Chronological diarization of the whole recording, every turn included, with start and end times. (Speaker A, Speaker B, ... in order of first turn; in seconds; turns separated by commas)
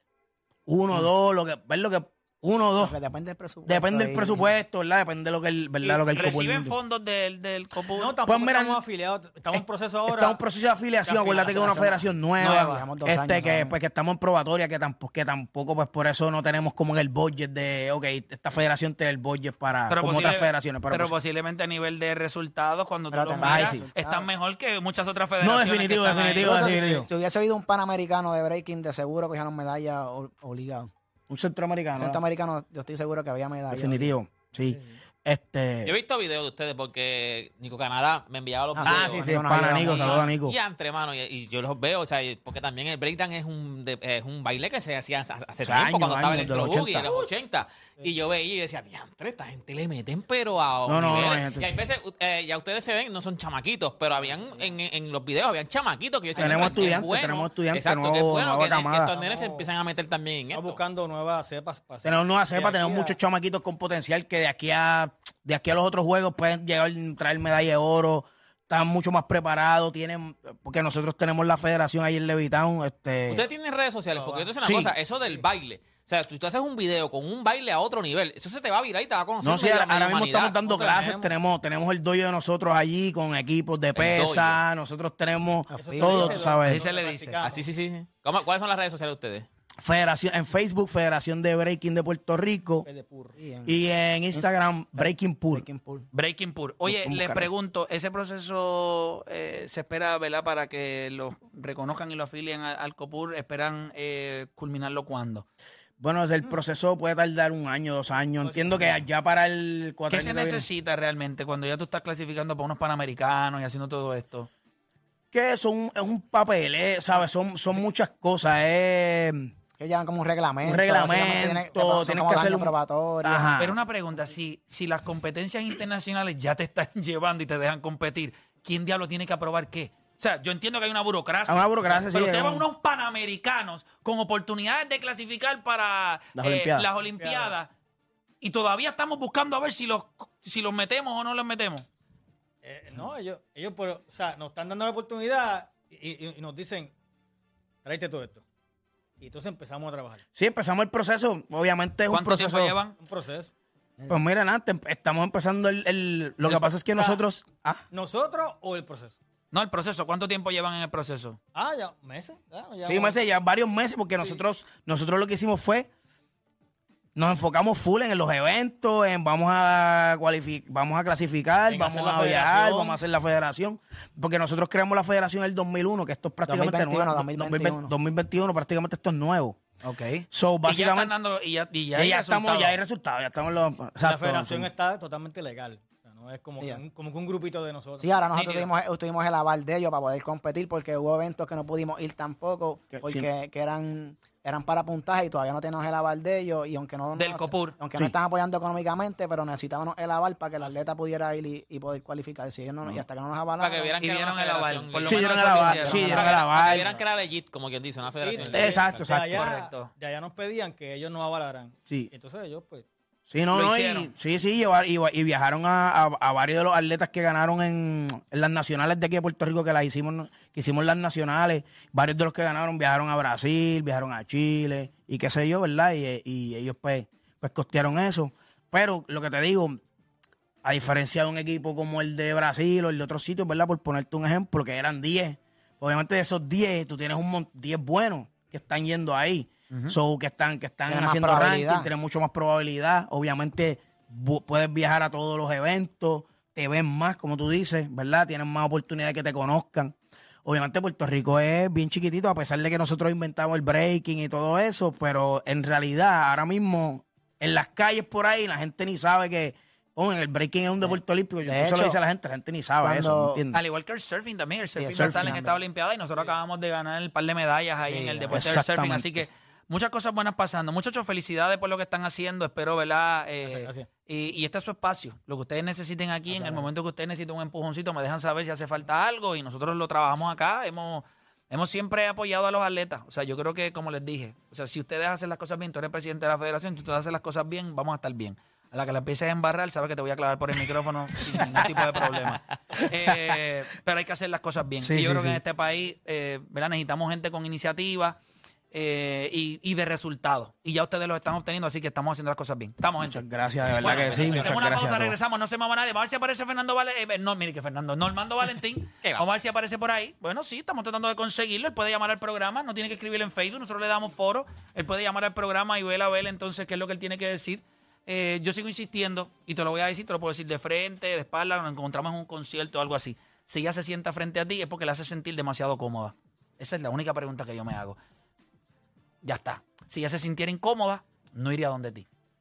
Speaker A: 0.7-2.9, Speaker B: 2.8-4.5, Speaker A: 3.6-6.8, Speaker C: 5.8-6.5, Speaker D: 6.1-8.2, Speaker C: 7.9-10.4, Speaker A: 8.2-8.8, Speaker A: 9.5-21.1, Speaker C: 11.0-11.8, Speaker D: 11.1-11.7, Speaker B: 11.5-13.7, Speaker D: 19.9-26.7, Speaker B: 23.1-24.3, Speaker A: 23.4-23.8, Speaker A: 25.4-27.1, Speaker B: 26.4-30.9, Speaker A: 31.3-32.2, Speaker B: 31.9-34.1, Speaker A: 33.7-35.9, Speaker E: 35.8-60.8, Speaker B: 38.8-40.2, Speaker A: 38.8-40.5, Speaker A: 45.6-47.1, Speaker C: 47.0-47.4, Speaker A: 50.8-51.7, Speaker C: 54.1-54.7, Speaker A: 56.4-59.1, Speaker C: 56.4-56.9, Speaker C: 59.0-59.7, Speaker C: 60.5-63.2, Speaker A: 62.0-73.5, Speaker E: 73.2-80.6, Speaker C: 74.1-74.5, Speaker A: 74.6-75.0, Speaker A: 79.4-86.9, Speaker C: 80.4-81.3, Speaker E: 83.9-84.6, Speaker B: 85.7-86.5, Speaker C: 85.7-87.7, Speaker D: 86.6-87.4, Speaker E: 87.4-89.5, Speaker A: 89.8-92.9, Speaker C: 92.8-93.3, Speaker B: 93.4-93.8, Speaker A: 93.7-95.6, Speaker B: 94.3-96.1, Speaker D: 96.1-105.4, Speaker A: 96.8-97.5, Speaker A: 106.0-110.7, Speaker C: 108.4-109.0, Speaker D: 110.1-114.5, Speaker A: 115.3-119.5, Speaker B: 119.8-123.6, Speaker A: 120.6-122.7, Speaker A: 123.2-123.8, Speaker D: 123.6-137.7, Speaker A: 131.5-132.7, Speaker A: 136.3-136.9, Speaker C: 137.2-137.5, Speaker D: 138.4-141.8, Speaker C: 142.6-146.9, Speaker C: 147.8-148.4, Speaker C: 149.2-150.2, Speaker A: 150.3-152.8, Speaker D: 152.1-152.9, Speaker C: 152.9-153.5, Speaker A: 154.1-157.8, Speaker C: 156.5-157.2, Speaker C: 157.9-159.2, Speaker D: 159.5-161.4, Speaker C: 161.5-163.2, Speaker A: 162.8-165.9, Speaker A: 167.2-179.6, Speaker C: 171.7-173.0, Speaker B: 176.4-177.9, Speaker D: 179.8-182.8, Speaker A: 180.3-181.1, Speaker A: 181.9-184.7, Speaker C: 184.0-188.0, Speaker B: 188.0-203.9, Speaker D: 188.3-188.7, Speaker A: 192.9-193.3, Speaker D: 197.2-197.8, Speaker C: 200.6-200.8, Speaker E: 203.6-209.0, Speaker D: 204.0-206.4, Speaker A: 205.0-206.9, Speaker C: 205.8-206.1, Speaker C: 206.7-207.0, Speaker C: 208.1-212.8, Speaker A: 208.5-209.5, Speaker D: 209.3-209.9, Speaker A: 213.3-229.8, Speaker D: 213.5-214.1, Speaker A: 230.6-263.6, Speaker D: 239.7-240.0, Speaker B: 240.9-241.9, Speaker B: 260.8-262.0, Speaker B: 262.8-263.4, Speaker D: 263.5-298.2, Speaker B: 264.8-265.6, Speaker A: 265.0-265.3, Speaker B: 267.9-268.4, Speaker A: 268.3-269.2, Speaker C: 273.4-273.9, Speaker C: 276.3-276.6, Speaker A: 294.8-295.4, Speaker D: 298.7-328.0, Speaker A: 303.0-305.1, Speaker E: 303.6-304.8, Speaker D: 329.2-332.1